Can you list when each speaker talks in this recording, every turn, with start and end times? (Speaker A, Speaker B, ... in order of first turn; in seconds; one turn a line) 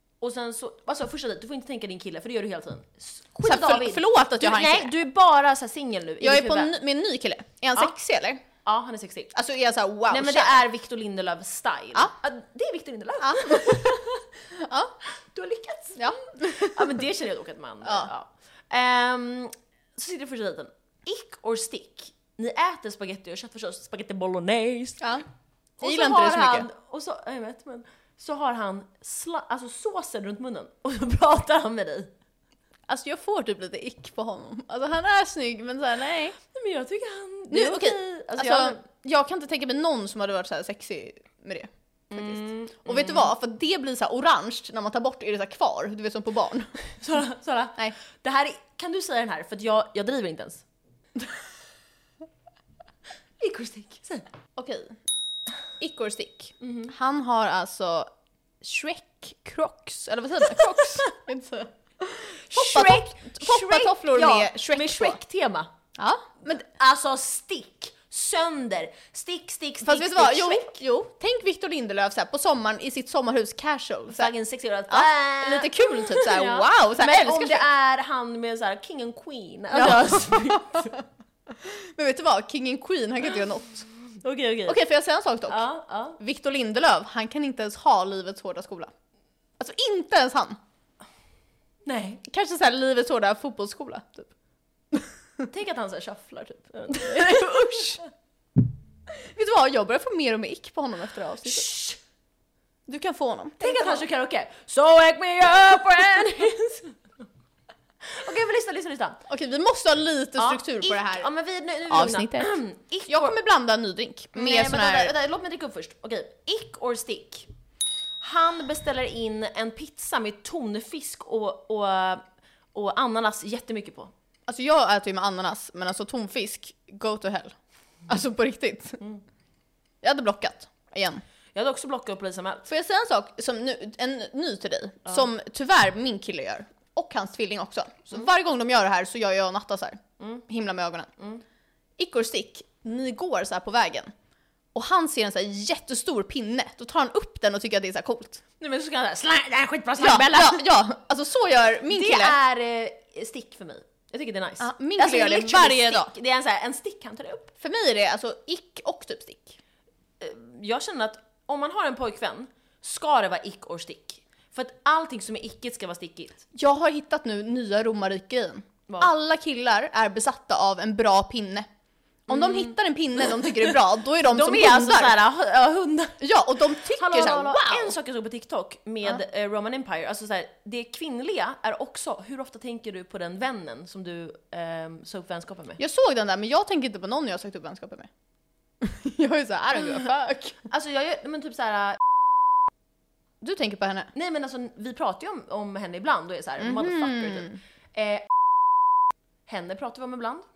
Speaker A: 0.2-6.8
Speaker B: 3.4-4.9
Speaker B: 6.2-8.4
Speaker A: 8.7-9.3
Speaker B: 9.3-10.6
Speaker A: 10.1-14.2
Speaker B: 13.2-14.9
Speaker A: 15.3-25.2
Speaker B: 16.0-17.0
Speaker B: 17.8-18.1
Speaker B: 25.8-26.7
Speaker A: 25.8-32.1
Speaker B: 32.9-36.4
Speaker A: 36.5-38.8
Speaker B: 37.5-46.7
Speaker A: 42.1-43.3
Speaker A: 47.0-50.6
Speaker A: 53.4-54.3
Speaker B: 54.6-55.0
Speaker B: 55.8-58.1
Speaker A: 56.6-56.9
Speaker B: 58.6-65.2
Speaker A: 62.4-65.7
Speaker B: 66.0-66.6
Speaker A: 66.5-70.8
Speaker B: 69.8-74.3
Speaker A: 74.1-80.9
Speaker B: 74.9-77.7
Speaker B: 79.7-83.9
Speaker A: 84.2-84.8
Speaker B: 84.7-85.6
Speaker A: 85.5-86.2
Speaker B: 86.2-88.9
Speaker B: 89.6-90.6
Speaker A: 91.9-92.2
Speaker B: 92.2-94.3
Speaker B: 94.9-95.4
Speaker A: 95.5-98.0
Speaker B: 96.9-98.0
Speaker B: 99.2-101.7
Speaker A: 101.5-102.0
Speaker B: 102.9-104.0
Speaker A: 103.6-107.0
Speaker A: 108.0-109.2
Speaker B: 109.3-111.3
Speaker A: 110.4-113.4
Speaker B: 111.9-112.5
Speaker B: 113.1-115.1
Speaker A: 114.3-117.5
Speaker A: 118.2-122.2
Speaker A: 122.7-124.1
Speaker B: 124.5-127.5
Speaker B: 128.1-129.0
Speaker B: 130.0-131.2
Speaker A: 131.6-132.7
Speaker B: 132.7-141.1
Speaker B: 142.0-144.1
Speaker B: 144.7-148.4
Speaker A: 148.6-150.6
Speaker B: 150.0-152.4
Speaker A: 151.9-157.5
Speaker B: 154.6-156.1
Speaker B: 157.6-159.6
Speaker A: 160.2-166.4
Speaker B: 166.6-171.7
Speaker B: 172.3-175.2
Speaker A: 172.3-172.7
Speaker A: 173.2-176.3
Speaker B: 176.2-178.0
Speaker A: 176.8-185.8
Speaker B: 185.8-188.1
Speaker B: 188.8-190.6
Speaker A: 190.7-192.0
Speaker B: 193.4-194.1
Speaker A: 194.1-198.3
Speaker B: 196.6-197.6
Speaker A: 199.5-200.4